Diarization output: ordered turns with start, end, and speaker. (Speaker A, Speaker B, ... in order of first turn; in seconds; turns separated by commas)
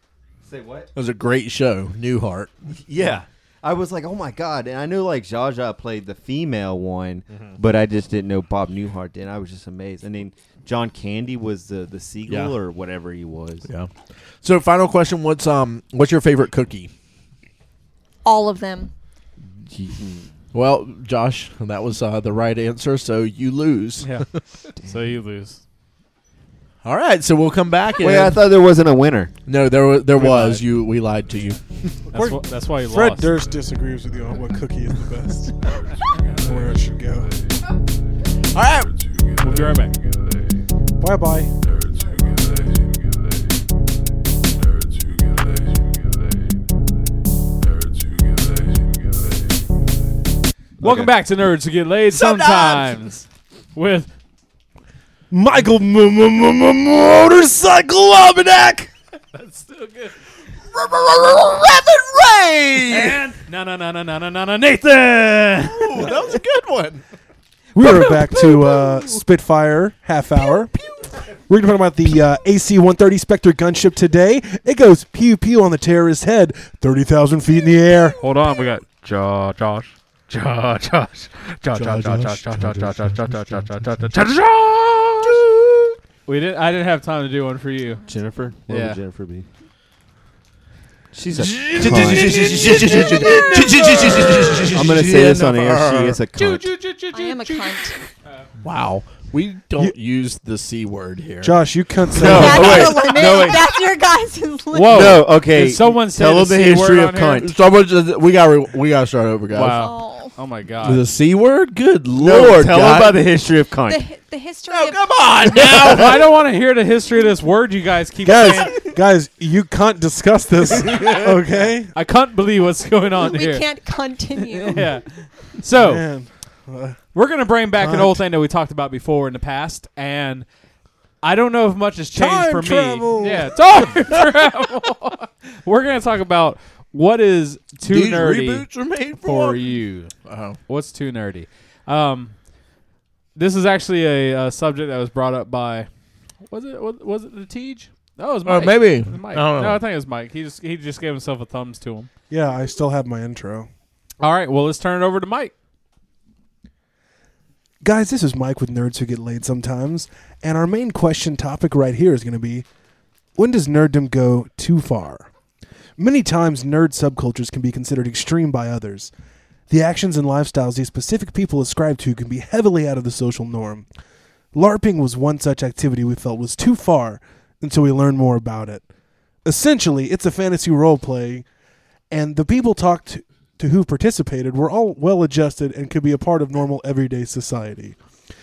Speaker A: 0.4-0.9, Speaker B: 0.9-2.8, Speaker A: 2.7-13.7, Speaker B: 7.3-7.6, Speaker B: 12.3-12.5, Speaker B: 13.7-16.9, Speaker C: 18.2-18.9, Speaker A: 19.6-20.3, Speaker B: 20.5-24.2, Speaker D: 24.0-25.6, Speaker B: 26.8-28.4, Speaker A: 28.0-29.3, Speaker B: 29.5-32.0, Speaker D: 32.1-33.3, Speaker E: 32.1-35.8, Speaker E: 36.3-37.3, Speaker B: 38.5-38.9, Speaker D: 39.4-40.0, Speaker E: 41.0-41.5, Speaker A: 50.8-51.1, Speaker D: 50.8-54.1, Speaker B: 52.1-52.9, Speaker E: 55.3-58.9, Speaker D: 59.3-60.1, Speaker B: 60.7-63.2, Speaker D: 62.9-66.1, Speaker B: 65.7-67.0, Speaker E: 67.7-70.7, Speaker B: 67.8-69.2, Speaker B: 70.4-71.2, Speaker E: 71.5-78.2, Speaker D: 78.2-85.5, Speaker B: 81.7-83.7, Speaker B: 85.3-85.6, Speaker D: 86.2-88.0, Speaker A: 88.1-89.5, Speaker D: 88.7-89.0, Speaker A: 91.1-96.7, Speaker B: 91.3-96.2, Speaker D: 91.5-94.7, Speaker D: 96.3-98.4, Speaker C: 97.1-98.0, Speaker B: 98.6-102.9, Speaker E: 101.4-102.8, Speaker A: 102.2-103.7, Speaker C: 102.2-105.2, Speaker D: 102.4-103.6, Speaker D: 104.7-107.5, Speaker A: 104.9-107.5, Speaker B: 107.4-109.8, Speaker D: 109.5-111.0, Speaker C: 109.7-110.3, Speaker B: 110.8-113.2, Speaker A: 112.1-114.0, Speaker C: 113.8-115.7, Speaker B: 114.7-116.2, Speaker D: 115.7-118.8, Speaker E: 118.2-121.9, Speaker D: 121.9-123.7, Speaker C: 123.2-124.9, Speaker D: 124.4-126.0, Speaker E: 125.8-127.0, Speaker D: 127.1-130.5, Speaker E: 127.8-128.1, Speaker D: 131.2-138.7, Speaker E: 132.1-134.0, Speaker B: 137.9-139.7, Speaker D: 139.2-140.1, Speaker B: 140.2-140.6, Speaker D: 140.7-142.4, Speaker D: 143.3-145.9, Speaker D: 146.5-152.1, Speaker B: 148.4-149.8, Speaker E: 152.3-153.7, Speaker D: 154.2-155.5, Speaker E: 157.8-162.6, Speaker E: 163.3-165.3, Speaker E: 166.0-169.1, Speaker E: 169.7-173.8, Speaker E: 174.5-178.8, Speaker E: 179.4-181.4, Speaker E: 182.1-188.0